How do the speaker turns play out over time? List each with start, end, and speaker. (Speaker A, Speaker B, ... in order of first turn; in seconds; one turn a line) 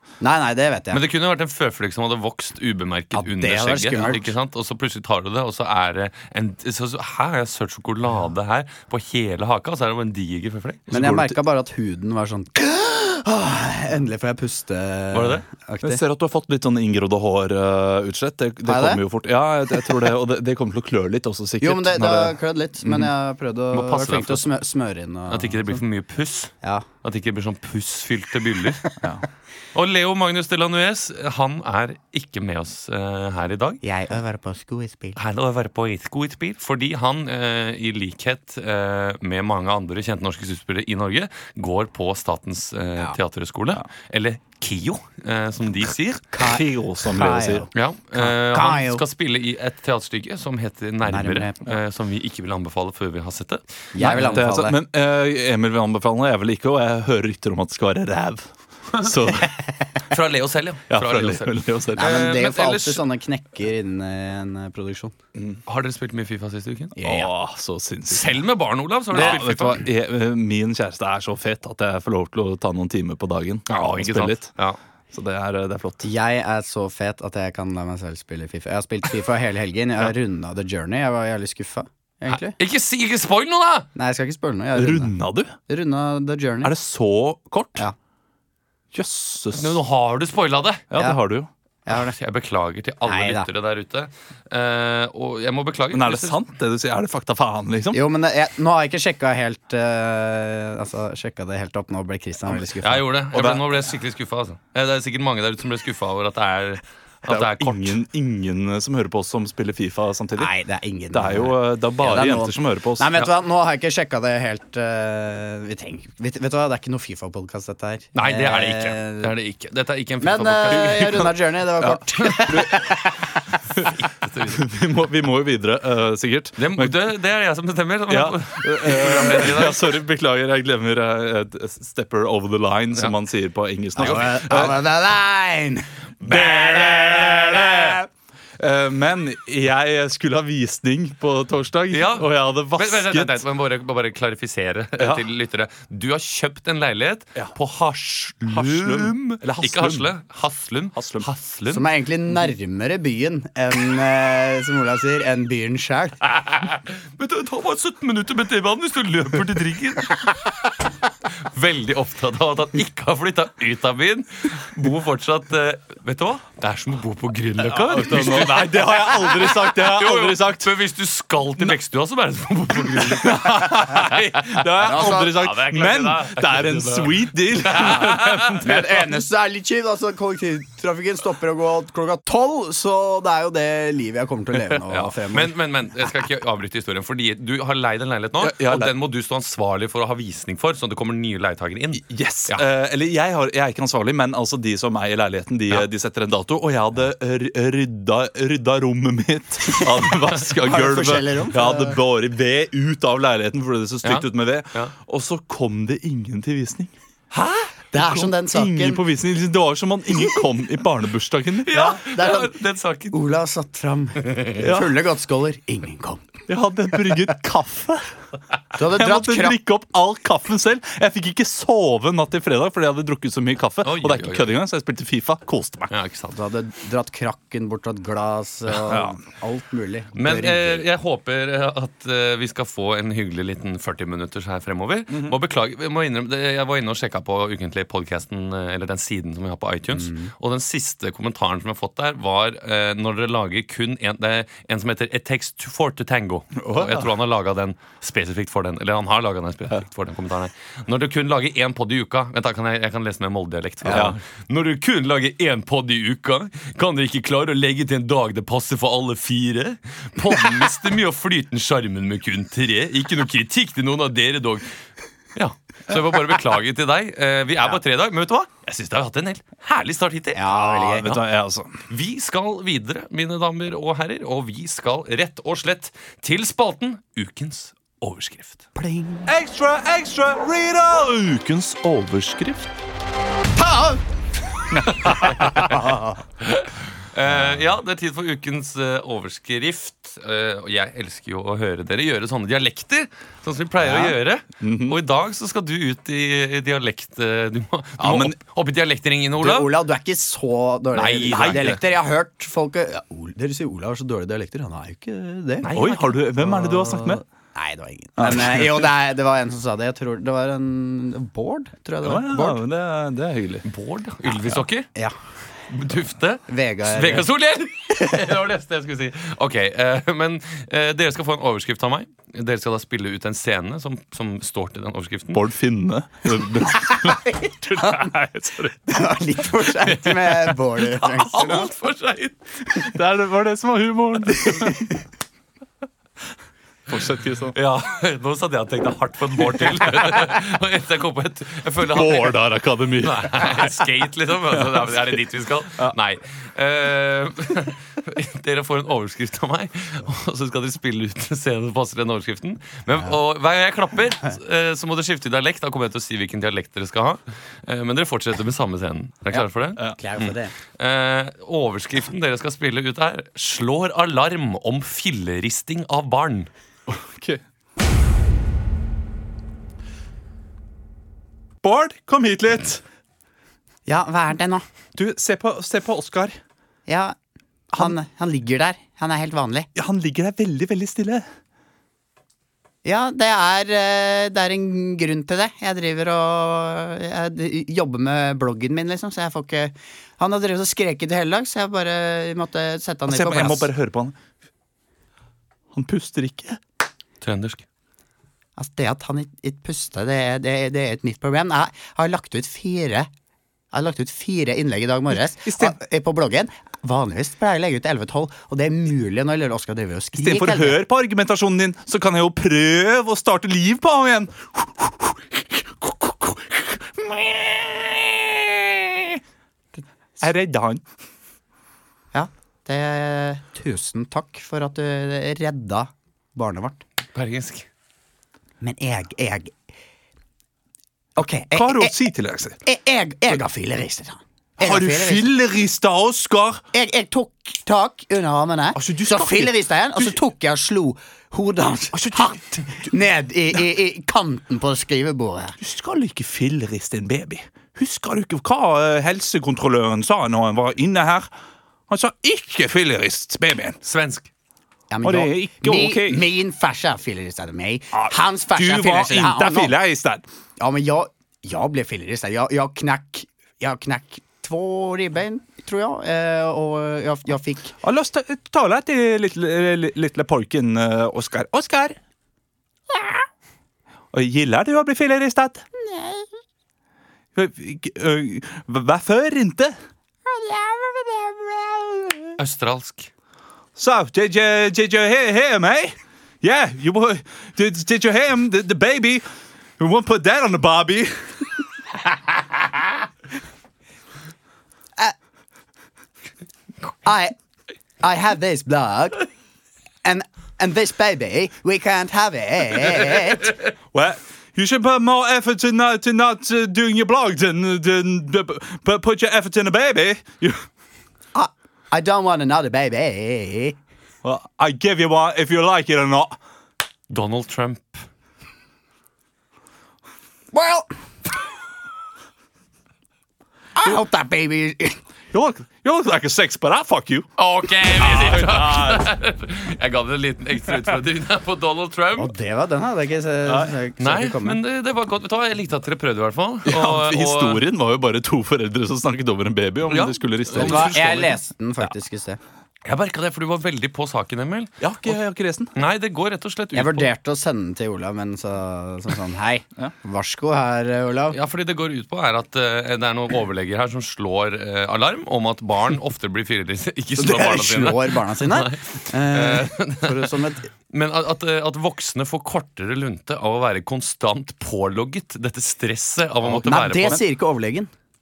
Speaker A: 0.2-1.0
Speaker B: 0.9-10.8
Speaker A: 3.2-4.3
Speaker C: 10.9-11.4
Speaker A: 10.9-16.0
Speaker B: 15.1-15.4
Speaker C: 15.8-23.1
Speaker A: 18.6-19.0
Speaker A: 19.7-20.1
Speaker A: 21.6-25.8
Speaker B: 23.7-24.5
Speaker B: 25.3-28.9
Speaker B: 29.7-33.8
Speaker A: 33.8-35.2
Speaker B: 35.1-46.2
Speaker A: 46.3-49.0
Speaker C: 46.4-47.7
Speaker B: 47.7-54.5
Speaker A: 51.0-51.7
Speaker A: 53.9-54.8
Speaker C: 54.0-59.6
Speaker B: 60.1-63.0
Speaker C: 60.9-62.4
Speaker A: 62.0-65.1
Speaker C: 65.3-65.6
Speaker B: 65.7-66.9
Speaker A: 67.0-67.3
Speaker C: 67.0-68.4
Speaker B: 68.1-69.8
Speaker C: 69.1-74.5
Speaker B: 73.7-74.8
Speaker C: 75.1-76.1
Speaker A: 76.0-82.5
Speaker B: 82.3-83.9
Speaker A: 83.9-85.1
Speaker C: 84.7-85.5
Speaker A: 85.7-86.7
Speaker C: 86.6-87.9
Speaker C: 88.9-89.8
Speaker B: 89.5-90.8
Speaker C: 90.9-91.5
Speaker A: 91.8-92.1
Speaker B: 91.9-96.4
Speaker A: 93.0-93.5
Speaker C: 95.9-98.0
Speaker A: 97.9-103.0
Speaker B: 102.8-108.0
Speaker C: 103.3-103.6
Speaker C: 107.3-110.5
Speaker A: 110.3-119.3
Speaker C: 111.1-113.1
Speaker B: 118.1-121.2
Speaker A: 120.2-123.2
Speaker C: 120.7-121.3
Speaker C: 121.8-122.9
Speaker B: 124.0-124.6
Speaker C: 124.5-127.0
Speaker B: 126.6-130.0
Speaker C: 128.1-134.8
Speaker A: 134.0-138.0
Speaker B: 134.0-134.3
Speaker C: 136.2-138.0
Speaker C: 138.6-143.4
Speaker B: 141.9-151.8
Speaker C: 145.0-145.2
Speaker C: 148.5-150.1
Speaker C: 150.9-151.3
Speaker A: 151.7-156.2
Speaker B: 156.3-160.4
Speaker B: 161.3-178.6
Speaker C: 167.6-170.7
Speaker C: 172.9-179.1
Speaker A: 174.8-175.4
Speaker A: 178.6-185.6
Speaker B: 184.7-192.6
Speaker C: 188.4-188.9
Speaker C: 192.0-206.9
Speaker A: 200.6-202.0
Speaker B: 204.0-204.9
Speaker B: 207.3-207.7
Speaker A: 207.9-209.0
Speaker C: 207.9-212.0
Speaker A: 210.1-210.4
Speaker B: 211.7-213.2
Speaker A: 211.7-212.5
Speaker A: 213.1-216.4
Speaker C: 214.6-214.9
Speaker C: 216.5-218.1
Speaker A: 218.7-219.6
Speaker C: 218.8-225.9
Speaker B: 223.8-224.5
Speaker B: 225.9-226.3
Speaker A: 226.3-230.8
Speaker C: 228.8-229.2
Speaker B: 230.2-264.7
Speaker C: 235.1-235.3
Speaker A: 239.9-240.3
Speaker C: 246.6-247.1
Speaker A: 253.8-254.1
Speaker C: 253.9-254.2
Speaker B: 265.3-270.5
Speaker A: 270.3-271.1
Speaker C: 270.5-271.8
Speaker B: 271.9-278.7
Speaker A: 278.8-279.3
Speaker C: 279.3-282.7
Speaker A: 283.6-284.0
Speaker C: 284.7-285.9
Speaker B: 285.0-285.9
Speaker A: 285.6-286.2
Speaker B: 286.4-299.7
Speaker C: 293.8-295.0
Speaker C: 298.0-298.4
Speaker A: 299.4-305.7
Speaker B: 300.9-301.7
Speaker C: 301.3-301.8
Speaker B: 305.6-306.2
Speaker C: 305.7-307.2
Speaker A: 306.4-312.6
Speaker C: 308.2-308.9
Speaker C: 312.0-313.6
Speaker B: 313.6-314.9
Speaker B: 315.7-325.4
Speaker A: 316.5-317.3
Speaker A: 318.0-318.3
Speaker C: 325.3-329.0
Speaker A: 326.7-328.1
Speaker A: 328.9-331.7
Speaker C: 329.8-330.4
Speaker B: 331.0-332.4
Speaker C: 332.8-334.8
Speaker A: 334.4-334.9
Speaker C: 336.9-337.6
Speaker B: 337.5-342.4
Speaker C: 339.5-340.3
Speaker C: 341.9-343.7
Speaker B: 343.0-366.5
Speaker C: 344.6-344.9
Speaker A: 360.0-360.5
Speaker C: 366.9-367.4
Speaker C: 371.6-372.8
Speaker A: 373.9-374.6
Speaker C: 374.9-376.4
Speaker A: 376.9-377.1
Speaker A: 377.7-379.7
Speaker C: 379.8-381.2
Speaker A: 382.8-393.7
Speaker C: 393.1-394.1
Speaker C: 395.7-396.6
Speaker B: 397.2-397.6
Speaker A: 398.6-403.1
Speaker A: 403.7-410.8
Speaker C: 405.4-405.8
Speaker C: 410.1-419.2
Speaker C: 420.2-420.8
Speaker A: 422.1-426.8
Speaker B: 427.1-427.7
Speaker A: 428.6-429.6
Speaker A: 431.1-431.9
Speaker C: 431.5-432.6
Speaker A: 432.6-435.3
Speaker C: 434.6-436.6
Speaker A: 436.7-445.6
Speaker C: 438.7-440.2
Speaker C: 441.9-442.9
Speaker C: 445.6-451.3
Speaker C: 451.9-453.8
Speaker B: 453.8-454.3
Speaker A: 454.9-459.8
Speaker C: 455.0-456.2
Speaker C: 457.9-460.2
Speaker A: 460.6-467.8
Speaker C: 467.8-472.0
Speaker C: 474.1-475.6
Speaker A: 475.8-476.3
Speaker C: 477.3-479.7
Speaker A: 480.2-482.4
Speaker B: 482.4-483.1
Speaker C: 483.8-489.2
Speaker C: 489.8-491.4
Speaker A: 497.0-497.3
Speaker A: 498.0-499.2
Speaker A: 500.0-503.5
Speaker C: 503.9-510.6
Speaker A: 511.3-513.8
Speaker C: 514.2-516.3
Speaker B: 517.1-518.0
Speaker A: 520.5-520.9
Speaker A: 523.7-525.0
Speaker C: 525.3-527.3
Speaker B: 527.4-532.3
Speaker C: 528.0-529.1
Speaker C: 530.7-530.9
Speaker A: 532.2-534.6
Speaker C: 533.5-533.8
Speaker B: 534.0-537.6
Speaker C: 536.6-541.4
Speaker B: 539.9-540.9
Speaker A: 540.5-542.4
Speaker B: 542.8-545.2
Speaker C: 544.8-545.8
Speaker B: 545.7-547.1
Speaker A: 546.7-551.4
Speaker B: 551.3-560.3
Speaker A: 557.2-560.7
Speaker B: 560.9-567.2
Speaker C: 566.4-567.2
Speaker A: 566.6-567.9